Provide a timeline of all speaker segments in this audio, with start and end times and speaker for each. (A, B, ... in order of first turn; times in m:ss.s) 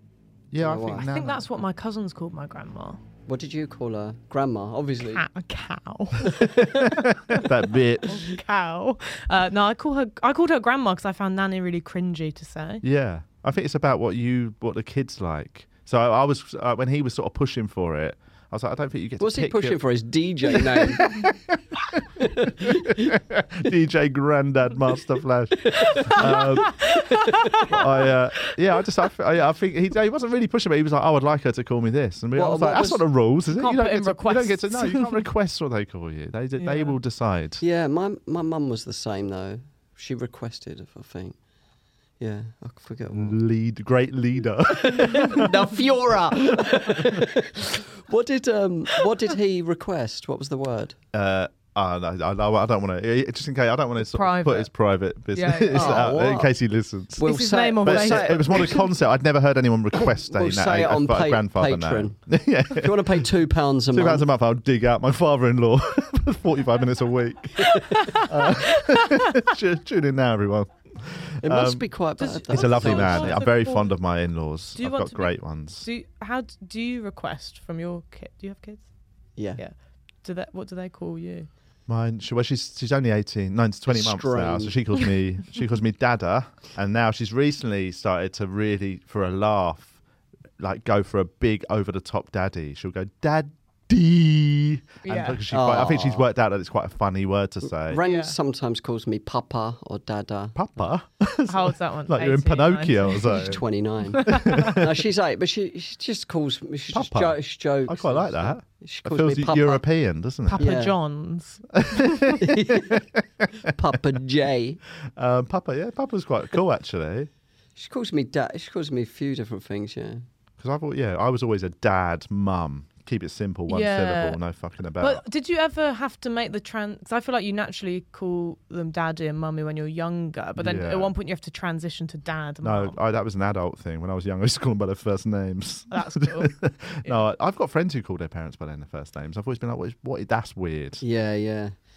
0:00.5-0:01.4 A
0:00.6-0:01.1 B
0:01.0-0:03.0 C
0:03.3-0:05.2 B
0:05.1-0:07.5 C
0:06.6-0:08.2 A
0:08.1-0:12.8 C
0:12.8-0:19.8 A
0:19.2-0:21.2 B
0:20.6-0:26.8 A
0:22.2-0:23.1 B
0:25.6-0:27.7 B
0:26.2-0:27.6 C
0:27.6-0:37.6 A
0:32.4-0:33.0 B
0:33.5-0:35.2 C
0:36.6-0:37.0 C
0:37.6-0:41.4 B
0:42.2-0:43.4 B
0:43.1-0:45.5 A
0:44.7-0:51.0 B
0:51.1-1:03.3 A
0:54.0-0:54.7 C
0:55.3-0:56.1 C
0:55.7-0:56.5 B
0:57.2-0:58.9 B
0:57.2-0:58.8 C
1:00.0-1:04.3 B
1:03.9-1:11.9 A
1:07.8-1:08.2 C
1:11.4-1:13.4 B
1:12.2-1:14.0 C
1:12.5-1:15.9 A
1:14.8-1:21.5 C
1:19.4-1:19.6 B
1:21.9-1:30.0 A
1:23.9-1:24.8 B
1:30.6-1:38.0 A
1:35.0-1:35.4 C
1:35.5-1:36.2 B
1:37.8-1:40.6 B
1:38.0-1:38.4 C
1:40.6-1:43.6 A
1:41.5-1:43.5 C
1:43.3-1:49.8 B
1:44.1-1:44.8 C
1:44.2-1:44.8 A
1:46.9-1:50.7 A
1:50.5-1:52.0 C
1:50.6-1:51.0 B
1:51.7-1:53.5 A
1:52.4-1:53.0 B
1:53.7-1:54.8 B
1:55.2-1:57.3 A
1:57.8-2:00.2 B
2:00.6-2:05.2 A
2:03.7-2:04.4 C
2:05.0-2:13.0 C
2:10.6-2:11.1 A
2:12.6-2:21.0 A
2:15.9-2:17.2 C
2:21.0-2:21.8 B